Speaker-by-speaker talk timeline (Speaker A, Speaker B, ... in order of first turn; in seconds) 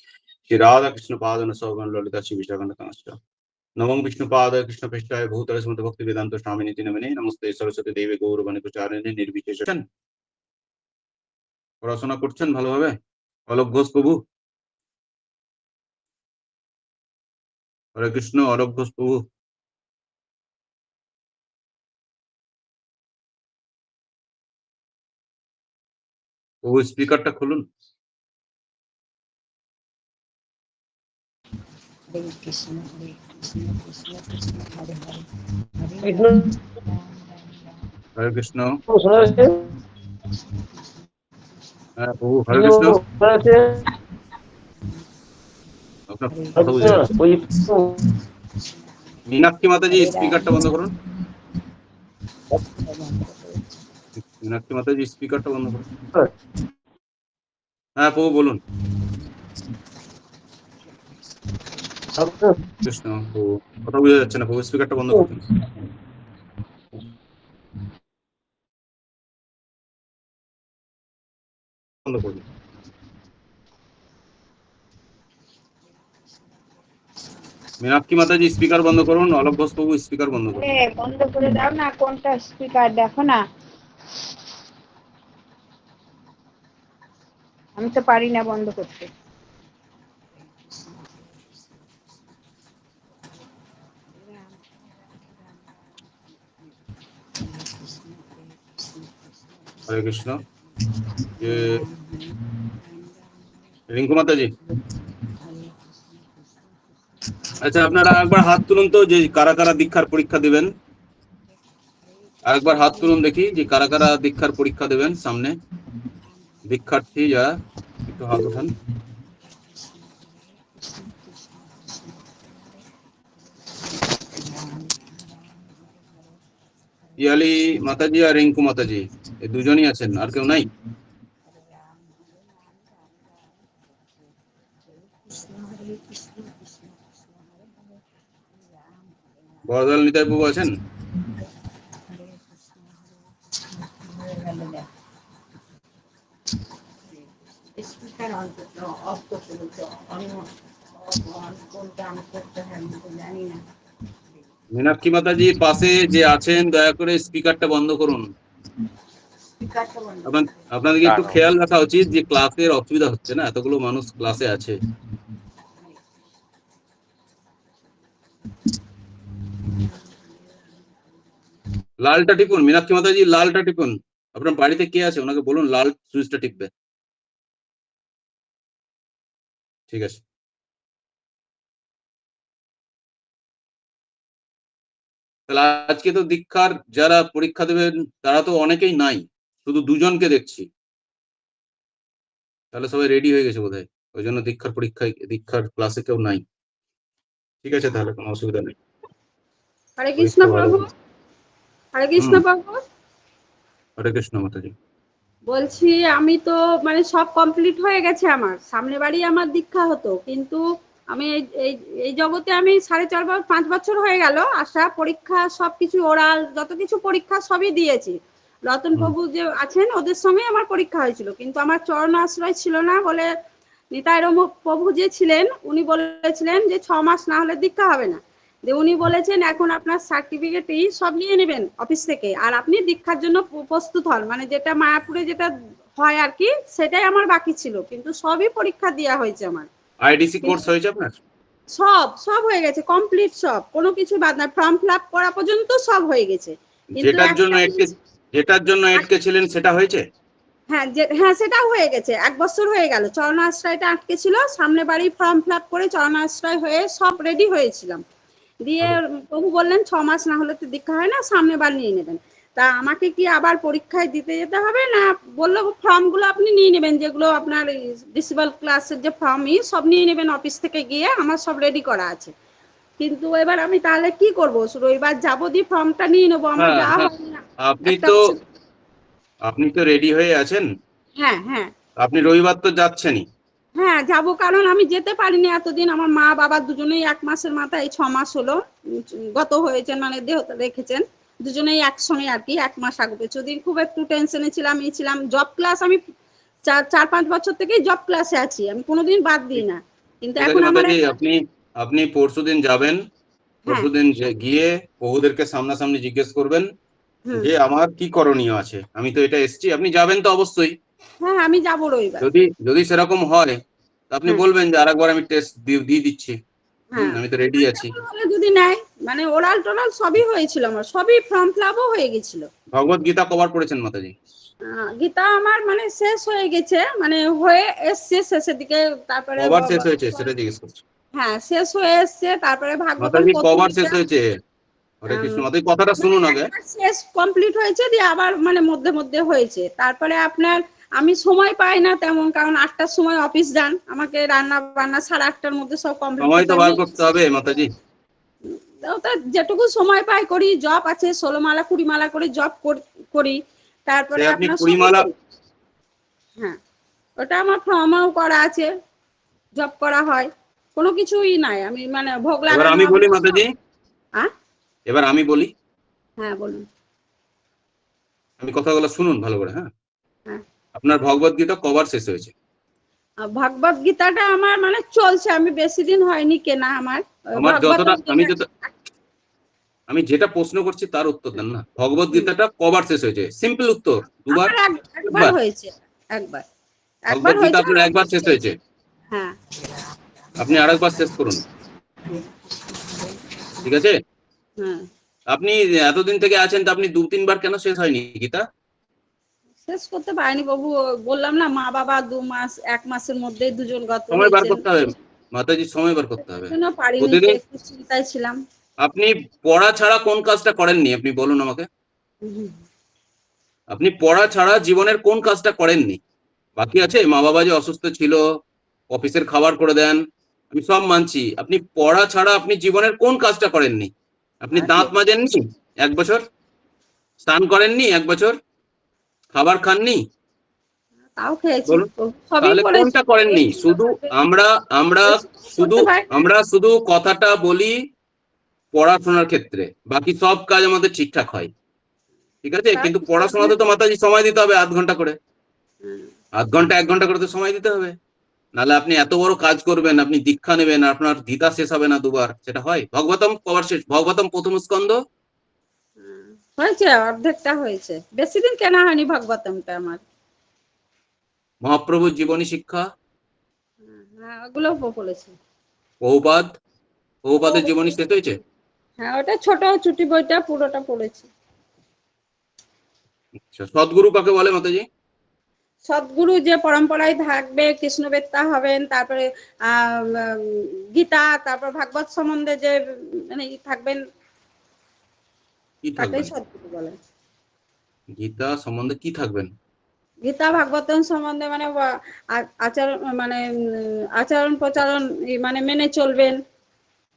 Speaker A: 0.5-3.2, 3.8-9.8, 11.8-12.9, 13.5-14.2, 18.0-19.2, 26.6-27.6, 38.2-38.8, 42.0-43.0, 46.1-47.1, 49.3-50.9, 54.4-55.9, 58.0-58.6, 62.9-65.4, 72.1-72.4, 77.8-80.6, 99.9-100.4, 101.4-101.8, 103.9-104.5, 107.6-110.7, 112.5-115.6, 116.7-117.6, 118.1-118.7, 127.2-130.7, 139.7-140.7, 154.7-158.3, 160.3-164.8, 172.0-176.7, 179.9-180.2, 185.5-190.7, 192.7-196.4, 197.6-198.8, 200.2-200.8, 202.2-202.4, 204.0-204.7, 240.0-241.2, 247.0-250.0, 276.6-277.1, 277.6-278.2, 279.5-280.7, 282.0-283.3, 300.4-303.0, 303.7-306.7, 307.4-310.8, 312.2-313.6, 314.1-316.4, 317.0-317.9, 322.7-324.1, 329.4-330.8, 333.0-334.3, 335.0-336.5, 346.2-347.7, 354.2-355.1, 362.5-363.5, 364.9-365.5, 368.4-369.7, 370.8-372.3, 377.4-378.5, 379.9-384.5, 385.1-385.4, 387.1-388.6, 390.4-391.4, 393.6-394.0, 395.3-398.4, 404.1-407.4, 408.8-411.7, 413.7-416.0, 416.6-418.2, 418.9-420.0, 420.5-423.9, 424.4-426.2, 427.3-428.4, 429.3-430.0, 432.4-437.8, 438.7-441.5, 442.4-445.2, 446.4-448.0, 448.6-455.0, 461.6-462.9, 466.0-466.5, 467.3-468.4, 473.5-474.9, 485.8-486.3, 488.2-489.5
Speaker B: 32.1-35.2, 35.8-37.0, 46.3-47.1, 49.9-50.7, 52.7-53.7, 80.7-83.2, 87.8-88.8, 90.7-91.2, 94.1-94.7, 97.4-100.0, 101.4-103.3, 105.4-108.1, 112.0-113.6, 116.3-116.8, 119.6-122.8, 124.0-126.4, 131.5-134.3, 134.9-139.7, 142.1-143.3, 144.0-144.9, 147.1-153.6, 159.6-160.7, 165.8-166.1, 169.8-171.3, 390.5-391.1, 392.1-393.4
Speaker C: 36.0-36.6, 38.9-39.6, 42.5-43.8, 46.6-47.9, 62.2-62.5
Speaker D: 200.0-200.9, 202.0-202.8, 205.5-210.6, 211.1-218.2, 218.7-223.3, 223.9-239.7, 241.7-247.9, 250.7-258.0, 258.6-272.3, 273.0-278.4, 281.2-281.7, 283.8-296.0, 296.7-301.2, 311.2-312.2, 316.9-322.5, 324.7-330.3, 331.2-334.0, 335.1-335.4, 336.0-347.2, 348.5-355.1, 357.2-358.7, 359.6-363.4, 366.2-366.6, 373.2-378.7, 384.3-386.4, 387.1-388.4, 394.6-394.9, 399.6-404.9, 406.5-408.4, 412.2-412.6, 424.5-424.9, 431.2-434.1, 435.1-436.1, 442.7-443.6, 445.8-446.1, 456.0-460.0, 463.8-465.4, 467.4-467.7, 469.0-471.3, 475.9-484.0, 486.0-487.0, 490.2-496.4